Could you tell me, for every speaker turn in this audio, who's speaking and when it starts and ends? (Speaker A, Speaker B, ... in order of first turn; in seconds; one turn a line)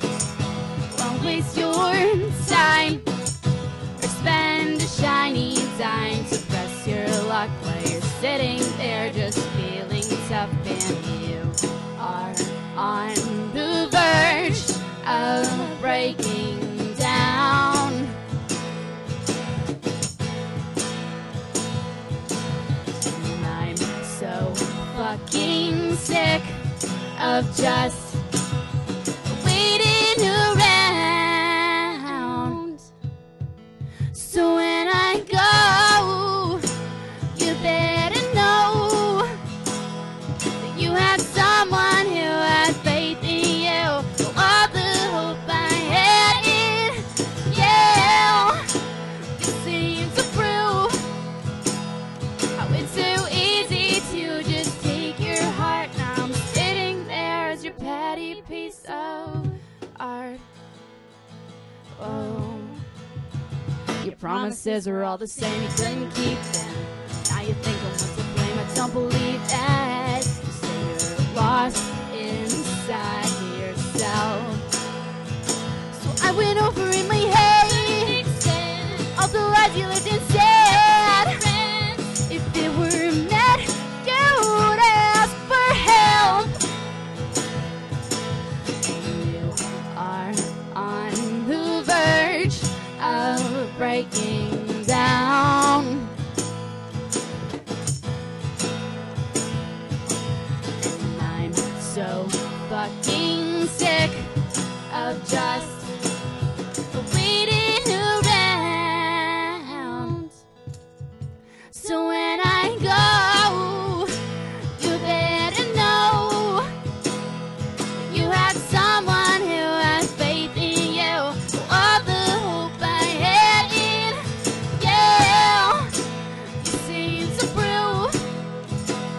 Speaker A: 0.9-3.0
Speaker A: 4.0-18.1
Speaker A: 23.0-26.6
Speaker A: 27.1-28.2
Speaker A: 29.3-32.8
Speaker A: 34.1-36.6
Speaker A: 37.3-39.4
Speaker A: 40.6-48.7
Speaker A: 49.4-51.0
Speaker A: 52.5-60.4
Speaker A: 62.0-62.8
Speaker A: 64.0-74.6
Speaker A: 75.9-86.5
Speaker A: 88.8-96.1
Speaker A: 100.8-104.3
Speaker A: 104.9-105.9
Speaker A: 106.9-110.4
Speaker A: 111.7-114.1
Speaker A: 114.7-116.7
Speaker A: 118.0-124.2
Speaker A: 124.7-125.9
Speaker A: 126.6-128.1